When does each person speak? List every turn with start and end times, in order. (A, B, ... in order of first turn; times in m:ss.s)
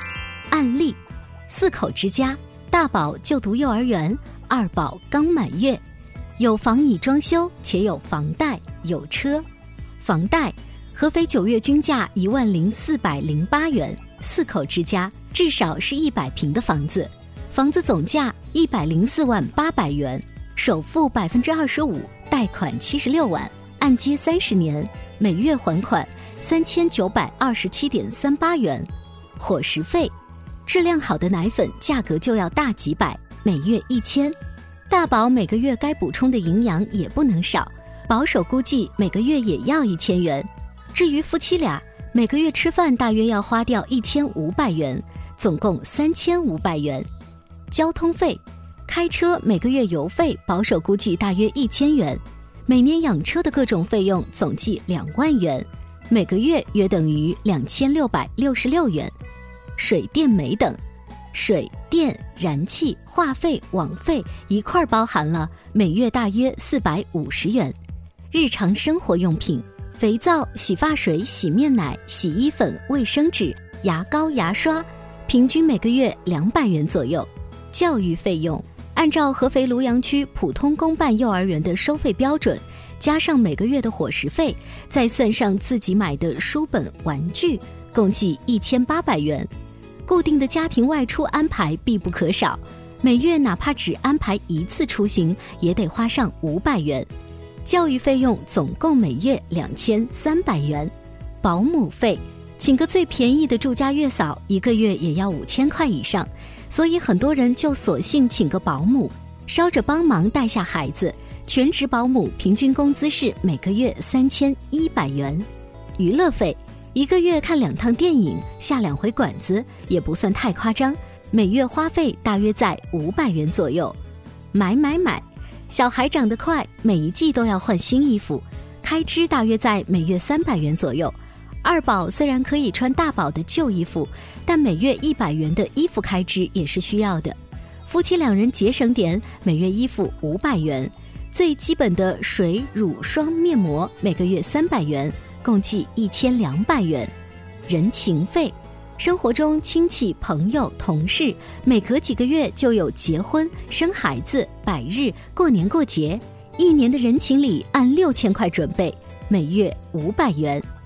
0:00.5-0:05.8 A
0:06.4-0:09.4 A
0:10.0-0:30.1 A
0:30.7-0:34.4 A
0:34.9-0:47.1 A
0:47.7-0:59.1 A
0:59.8-1:00.8 A
1:01.3-1:07.8 A
1:08.3-1:29.5 A
1:30.1-1:37.1 A
1:37.6-1:55.5 A
1:56.0-2:04.0 A
2:04.5-2:27.1 A
2:27.7-2:40.7 A